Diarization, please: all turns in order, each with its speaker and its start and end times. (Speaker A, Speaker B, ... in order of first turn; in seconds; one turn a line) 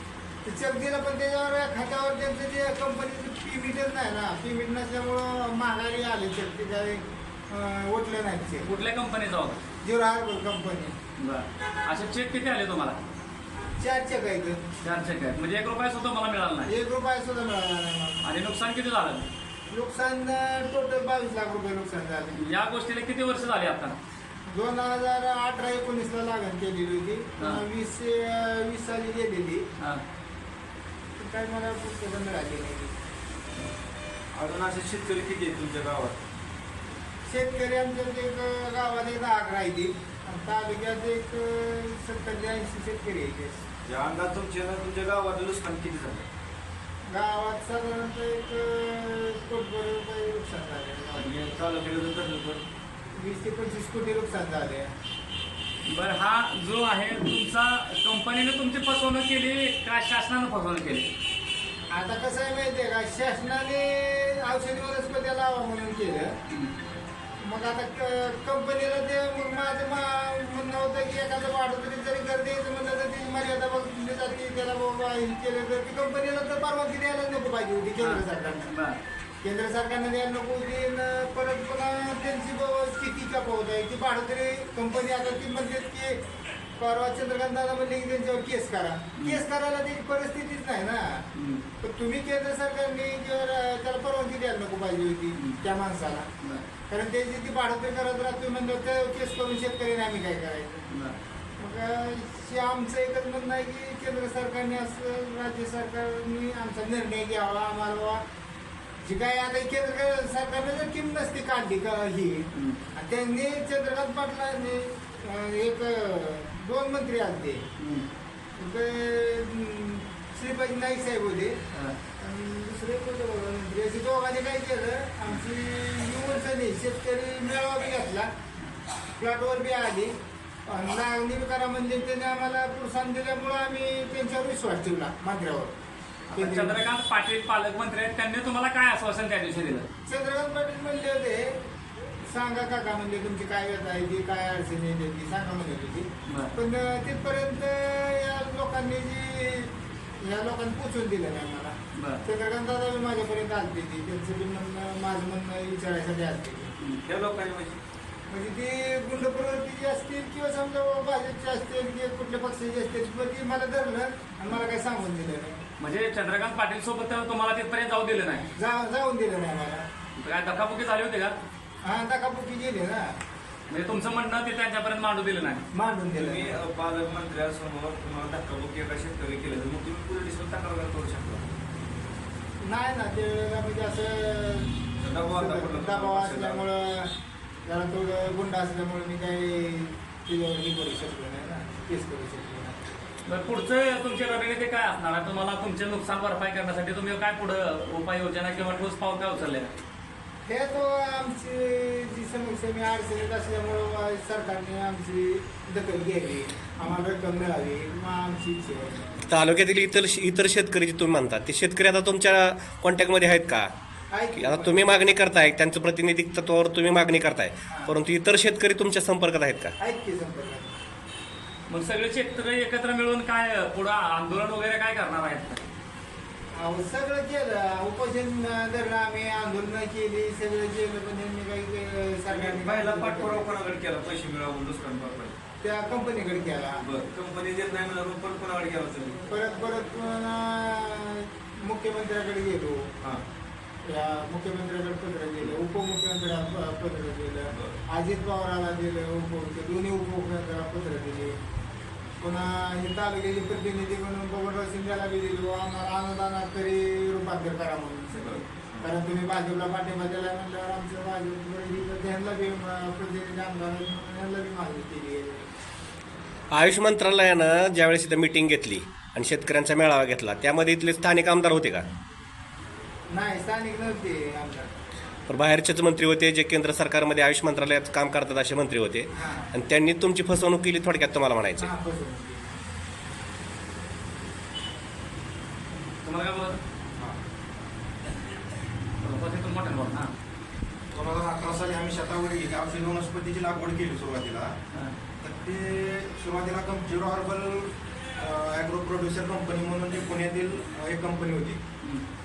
Speaker A: 0.4-8.7
Speaker B: 8.7-9.6
Speaker A: 9.8-10.9
Speaker B: 11.2-13.0
Speaker A: 13.8-14.6
Speaker B: 14.8-16.7
Speaker A: 16.6-18.2
Speaker B: 18.2-19.3
Speaker A: 19.7-22.4
Speaker B: 22.4-24.0
Speaker A: 24.5-29.7
Speaker A: 31.2-32.9
Speaker C: 34.3-36.2
Speaker A: 37.3-43.6
Speaker C: 43.9-46.3
Speaker A: 47.1-51.4
Speaker C: 51.2-52.6
Speaker A: 53.1-54.9
Speaker B: 55.9-61.1
Speaker A: 61.9-66.4
Speaker A: 67.4-78.7
Speaker B: 78.0-79.0
Speaker A: 79.4-86.2
Speaker A: 86.8-91.3
Speaker B: 91.3-91.6
Speaker A: 91.8-96.3
Speaker A: 96.9-100.9
Speaker B: 100.9-101.2
Speaker A: 101.6-108.2
Speaker A: 109.0-117.7
Speaker B: 117.8-118.1
Speaker A: 118.6-121.6
Speaker B: 121.7-122.0
Speaker A: 122.2-128.3
Speaker A: 129.2-130.1
Speaker A: 130.7-135.8
Speaker B: 136.3-139.8
Speaker A: 136.3-136.8
Speaker A: 140.1-141.6
Speaker A: 142.2-156.7
Speaker B: 146.3-146.5
Speaker B: 151.9-152.2
Speaker C: 157.0-157.8
Speaker A: 158.3-165.6
Speaker B: 165.8-168.5
Speaker A: 168.6-169.9
Speaker B: 170.2-171.4
Speaker A: 171.8-173.2
Speaker B: 173.7-175.7
Speaker A: 175.7-176.6
Speaker C: 176.1-181.5
Speaker A: 182.6-184.7
Speaker C: 185.0-186.7
Speaker A: 185.3-187.1
Speaker A: 187.7-192.8
Speaker B: 193.3-199.7
Speaker A: 200.4-209.2
Speaker D: 209.3-213.7
Speaker A: 214.1-215.0
Speaker D: 214.4-219.7
Speaker A: 217.7-217.9
Speaker A: 219.8-220.8
Speaker B: 221.7-225.6
Speaker A: 226.5-233.5
Speaker C: 232.3-235.4
Speaker A: 235.6-236.8
Speaker C: 236.8-239.2
Speaker A: 239.3-242.9
Speaker A: 243.8-251.4
Speaker A: 252.2-265.5
Speaker C: 258.1-258.9
Speaker D: 266.5-271.9
Speaker A: 273.1-274.7
Speaker D: 275.3-281.6
Speaker A: 279.1-279.5
Speaker A: 281.6-282.6
Speaker B: 286.0-286.6
Speaker B: 289.0-290.1
Speaker E: 290.9-294.6
Speaker E: 295.2-301.6